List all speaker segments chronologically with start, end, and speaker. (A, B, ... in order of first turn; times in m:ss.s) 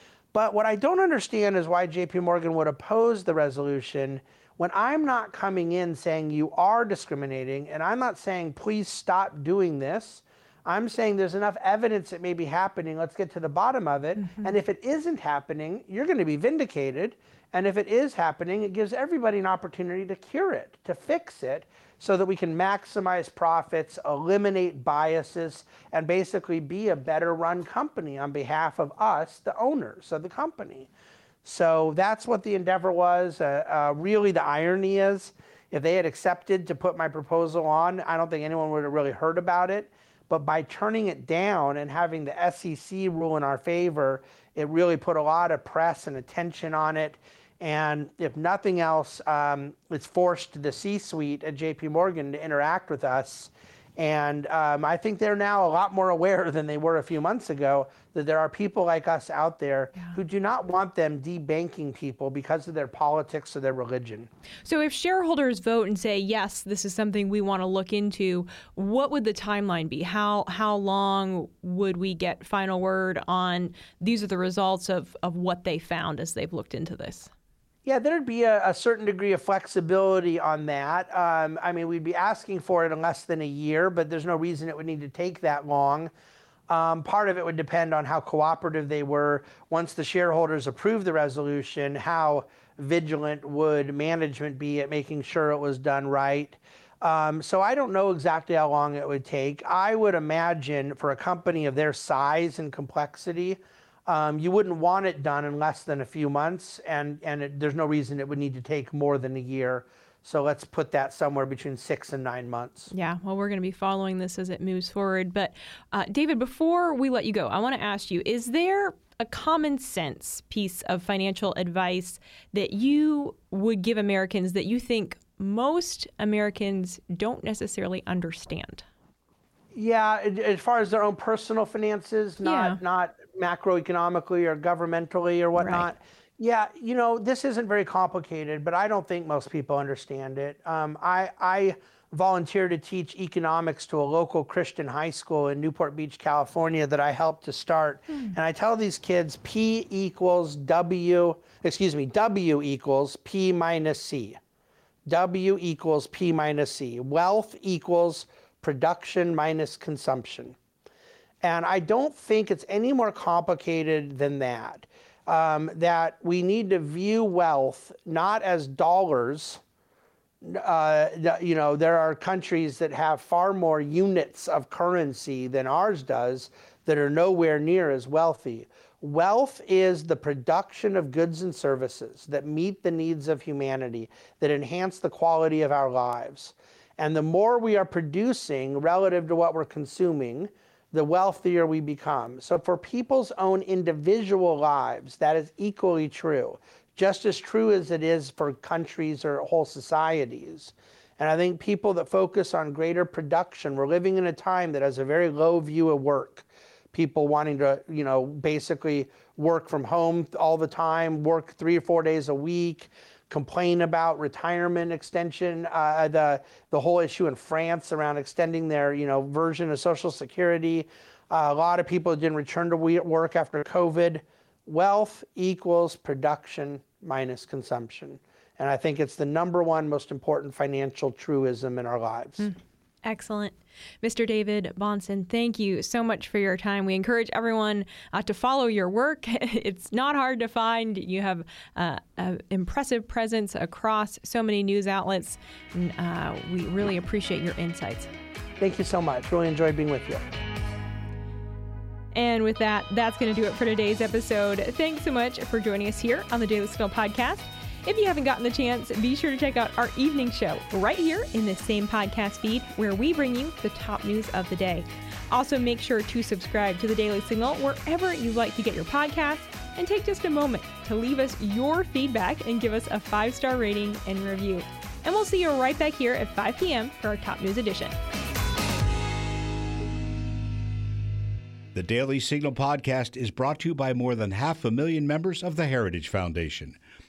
0:00.3-0:30.9 A
0:31.4-1:04.3 A
1:04.6-1:17.3 B
1:17.8-1:26.1 A
1:26.7-1:52.9 A
1:52.9-2:08.8 B
2:09.7-2:34.4 A
2:12.4-2:12.8 B
2:15.6-2:15.9 B
2:35.1-2:40.6 A
2:41.4-2:49.6 A
2:50.4-3:52.5 A
3:52.4-4:08.1 B
4:08.6-4:10.2 A
4:12.1-4:38.0 B
4:41.7-4:46.8 C